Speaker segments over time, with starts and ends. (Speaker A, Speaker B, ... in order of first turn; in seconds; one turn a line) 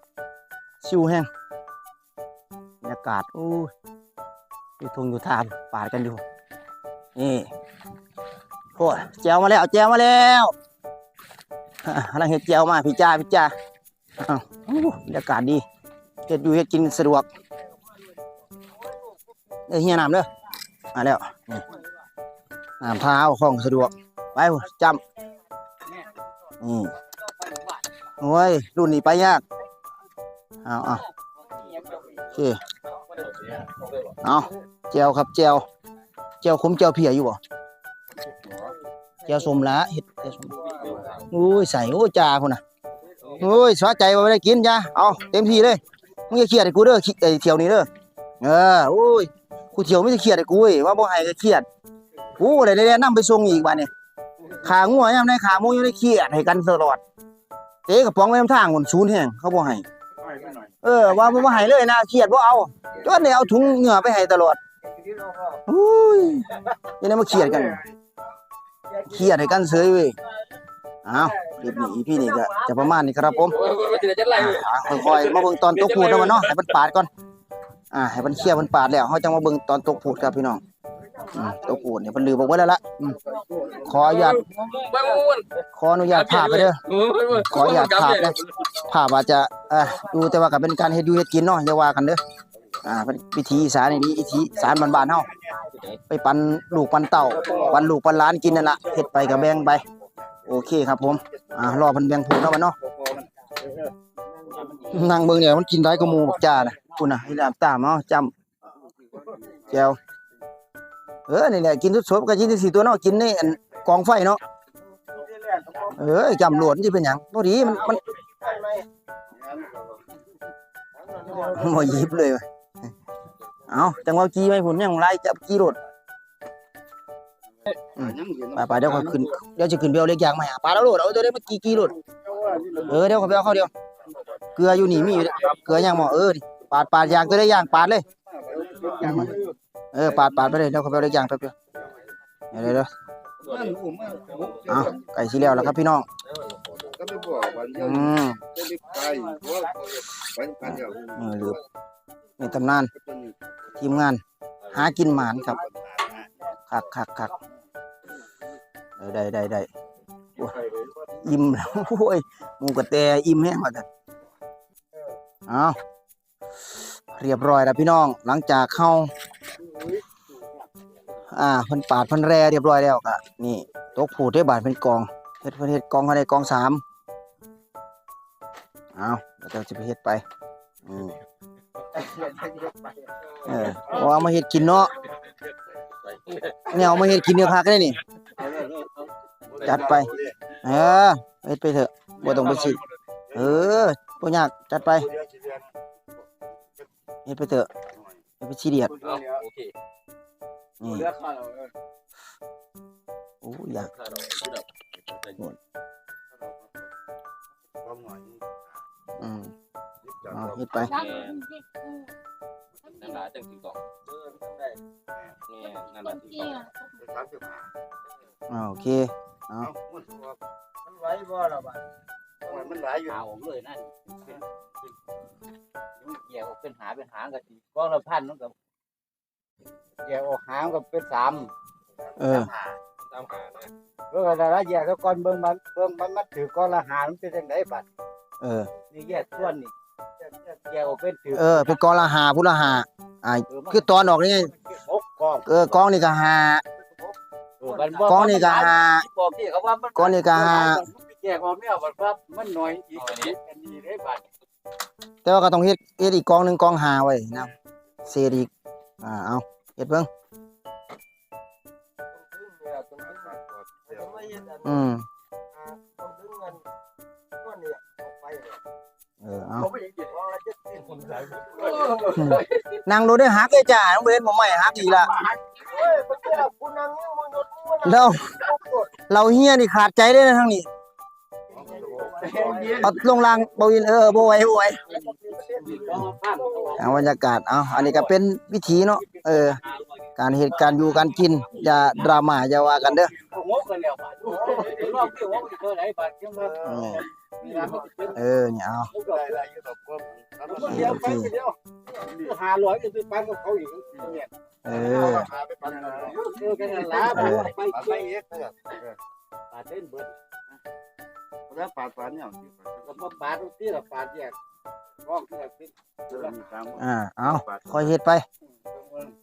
Speaker A: 0.8-1.3
Speaker A: 2.8-3.7
Speaker A: 4.8-6.2
Speaker A: 7.2-7.5
Speaker A: 8.8-10.5
Speaker A: 11.8-13.5
Speaker A: 14.2-15.6
Speaker A: 16.3-17.3
Speaker A: 19.7-20.3
Speaker A: 20.9-21.6
Speaker A: 22.8-25.0
Speaker A: 26.6-26.9
Speaker B: 27.4-27.8
Speaker A: 28.2-29.4
Speaker A: 30.6-31.0
Speaker B: 31.5-32.2
Speaker A: 32.3-32.6
Speaker C: 33.1-34.1
Speaker A: 34.2-35.6
Speaker A: 36.4-37.4
Speaker A: 39.2-40.6
Speaker B: 40.7-41.0
Speaker C: 40.8-41.2
Speaker A: 41.2-42.6
Speaker A: 43.4-47.9
Speaker A: 48.4-51.6
Speaker A: 52.4-53.9
Speaker A: 54.5-57.0
Speaker A: 57.9-59.8
Speaker B: 60.2-60.6
Speaker A: 60.8-64.6
Speaker B: 65.0-65.6
Speaker A: 65.7-67.8
Speaker D: 67.4-67.8
Speaker B: 68.9-69.2
Speaker A: 69.0-70.2
Speaker A: 71.0-73.6
Speaker B: 71.4-72.7
Speaker C: 73.4-76.7
Speaker A: 74.3-77.1
Speaker A: 77.9-80.6
Speaker B: 81.2-81.8
Speaker A: 81.3-83.2
Speaker D: 83.1-83.9
Speaker B: 83.4-83.9
Speaker A: 83.8-84.4
Speaker C: 84.0-85.5
Speaker B: 84.5-84.9
Speaker A: 85.7-86.8
Speaker C: 86.1-88.7
Speaker A: 87.3-92.2
Speaker A: 92.8-95.3
Speaker D: 95.0-95.3
Speaker A: 96.1-99.8
Speaker D: 98.8-99.7
Speaker A: 100.5-102.8
Speaker D: 102.8-103.3
Speaker B: 104.5-105.0
Speaker A: 104.9-108.3
Speaker B: 106.3-106.7
Speaker D: 109.2-109.8
Speaker A: 109.7-110.0
Speaker A: 111.3-114.4
Speaker B: 115.1-116.0
Speaker A: 115.9-118.0
Speaker B: 117.6-118.8
Speaker D: 119.4-119.9
Speaker B: 121.1-122.1
Speaker A: 121.4-122.4
Speaker A: 123.7-125.8
Speaker A: 128.0-131.9
Speaker D: 128.0-128.9
Speaker D: 132.2-133.0
Speaker C: 132.6-132.9
Speaker A: 132.8-133.7
Speaker A: 134.6-138.1
Speaker C: 135.3-135.6
Speaker D: 138.2-139.5
Speaker A: 139.0-139.3
Speaker A: 139.9-141.5
Speaker A: 142.5-142.9
Speaker C: 143.4-144.9
Speaker D: 143.4-145.6
Speaker A: 144.7-146.1
Speaker C: 146.3-146.8
Speaker D: 147.0-151.6
Speaker A: 147.8-148.4
Speaker A: 150.6-151.6
Speaker A: 152.4-152.9
Speaker D: 153.0-153.3
Speaker A: 153.8-155.6
Speaker D: 155.3-156.3
Speaker A: 156.7-157.3
Speaker A: 159.0-159.7
Speaker A: 161.2-163.8
Speaker A: 165.5-165.8
Speaker A: 166.7-169.1
Speaker B: 169.7-170.0
Speaker A: 171.3-176.8
Speaker A: 178.9-180.2
Speaker A: 180.8-181.2
Speaker A: 183.4-184.9
Speaker C: 186.1-186.6
Speaker A: 186.7-188.0
Speaker D: 189.5-190.3
Speaker A: 189.6-190.1
Speaker A: 190.6-192.8
Speaker C: 192.3-192.8
Speaker A: 193.3-195.1
Speaker D: 193.3-193.6
Speaker D: 195.0-195.7
Speaker A: 197.2-197.7
Speaker A: 198.4-199.0
Speaker C: 199.0-199.7
Speaker A: 200.8-201.1
Speaker B: 201.0-201.7
Speaker A: 203.4-203.9
Speaker C: 203.8-205.4
Speaker D: 207.8-208.6
Speaker A: 209.2-209.5
Speaker D: 210.0-210.7
Speaker A: 210.3-211.1
Speaker C: 210.8-211.6
Speaker C: 212.9-213.8
Speaker C: 215.5-216.7
Speaker D: 217.0-217.7
Speaker A: 218.5-219.7
Speaker D: 219.7-220.4
Speaker B: 220.9-221.8
Speaker D: 222.5-223.1
Speaker B: 223.1-224.4
Speaker B: 226.0-228.5
Speaker B: 230.0-231.5
Speaker A: 232.2-232.5
Speaker D: 232.5-232.8
Speaker C: 233.1-233.7
Speaker B: 234.1-237.8
Speaker A: 238.4-238.7
Speaker B: 238.9-239.7
Speaker B: 240.4-241.7
Speaker A: 241.3-244.5
Speaker B: 243.5-243.8
Speaker B: 244.7-245.4
Speaker A: 245.4-246.6
Speaker B: 247.6-254.2
Speaker A: 248.0-249.1
Speaker A: 249.9-250.8
Speaker C: 253.0-253.3
Speaker A: 255.2-257.5
Speaker A: 258.1-258.5
Speaker A: 259.0-260.1
Speaker B: 262.3-263.2
Speaker D: 263.1-264.5
Speaker B: 264.0-264.6
Speaker A: 264.6-265.0
Speaker B: 265.9-266.6
Speaker B: 267.4-268.6
Speaker A: 269.2-269.7
Speaker B: 270.1-270.5
Speaker C: 271.0-272.1
Speaker B: 271.6-272.2
Speaker D: 271.6-271.8
Speaker A: 272.1-275.1
Speaker B: 275.5-277.8
Speaker D: 276.1-277.6
Speaker A: 277.8-280.7
Speaker D: 281.5-282.9
Speaker B: 281.6-283.0
Speaker A: 282.8-284.8
Speaker B: 284.9-287.0
Speaker A: 286.8-289.6
Speaker A: 290.2-293.1
Speaker B: 293.3-296.6
Speaker D: 294.5-294.8
Speaker D: 296.5-297.0
Speaker A: 296.6-297.1
Speaker B: 297.4-298.2
Speaker A: 298.1-298.9
Speaker B: 298.9-299.4
Speaker D: 299.0-301.5
Speaker B: 300.5-301.3
Speaker A: 300.6-301.3
Speaker B: 302.0-304.3
Speaker A: 304.6-305.3
Speaker D: 304.8-308.9
Speaker B: 305.9-308.1
Speaker A: 307.0-307.5
Speaker B: 309.5-310.1
Speaker D: 311.5-312.9
Speaker B: 312.8-314.4
Speaker B: 315.0-316.3
Speaker D: 316.1-316.8
Speaker A: 316.8-318.2
Speaker D: 317.3-317.7